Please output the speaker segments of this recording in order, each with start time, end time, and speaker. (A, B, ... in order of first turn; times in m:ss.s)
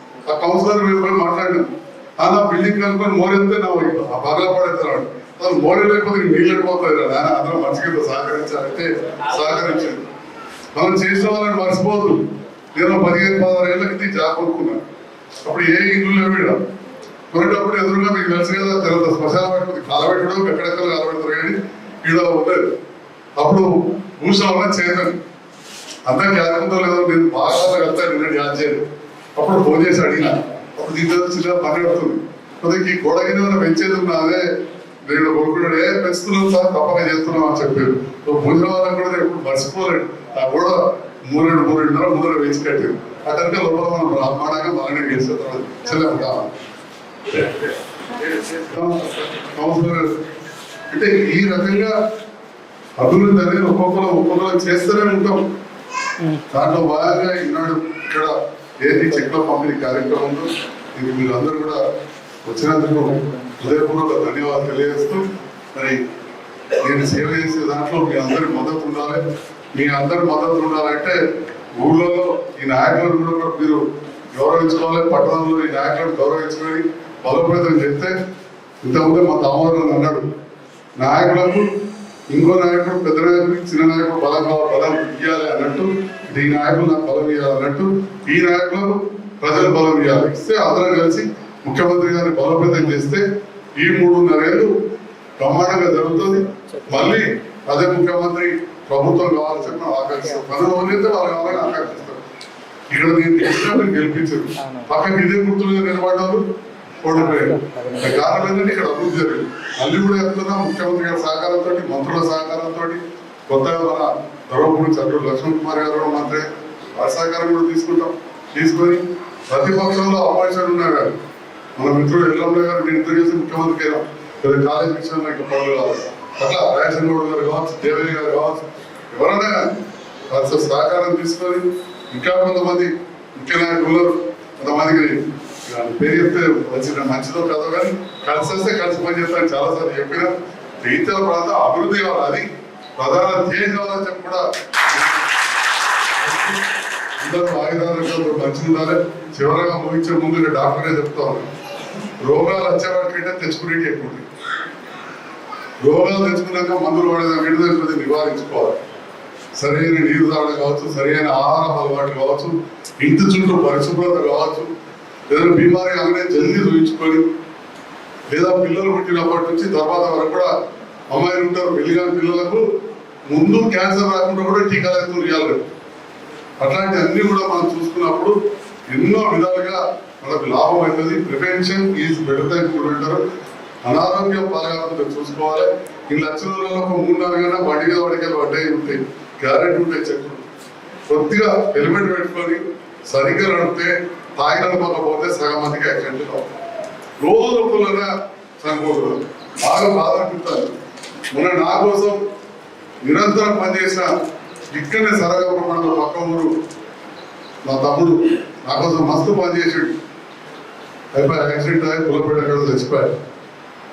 0:00.3-0:10.0 A
0:10.7-0:12.2 A
0:12.7-0:14.8 A
0:15.4-0:16.6 A
0:17.3-0:22.6 A
0:23.4-0:25.2 A
0:26.0-0:28.8 A
0:29.4-0:34.4 A
0:35.0-0:46.5 A
0:47.3-0:47.6 A
0:48.2-0:50.0 A
0:50.9-0:51.9 A
0:53.0-0:55.4 A
0:56.5-1:01.8 A
1:02.4-1:05.2 A
1:06.8-1:09.2 A
1:09.7-1:11.2 A
1:11.8-1:13.8 A
1:14.3-1:18.1 A
1:18.8-1:20.2 A
1:21.0-1:21.6 A
1:22.3-1:33.2 A
1:33.8-1:34.7 A
1:35.4-1:42.2 A
1:42.9-1:46.4 A
1:47.0-1:56.4 A
1:57.0-2:01.1 A
2:01.8-2:09.6 A
2:10.3-2:15.1 A
2:15.7-2:22.4 A
2:23.0-2:25.2 A
2:26.2-2:26.6 A
2:27.2-2:31.5 A
2:32.2-2:34.2 A
2:35.8-2:38.8 A
2:39.6-2:44.7 A
2:45.3-2:47.2 A
2:48.3-2:50.5 A
2:51.1-2:52.6 A
2:53.3-2:55.6 A
2:56.6-2:58.3 A
2:58.9-3:03.2 A
3:03.8-3:10.4 A
3:11.1-3:16.5 A
3:17.2-3:18.1 A
3:18.6-3:20.7 A
3:21.3-3:22.2 A
3:23.0-3:24.1 A
3:24.7-3:26.5 A
3:27.6-3:29.9 A
3:31.1-3:33.1 A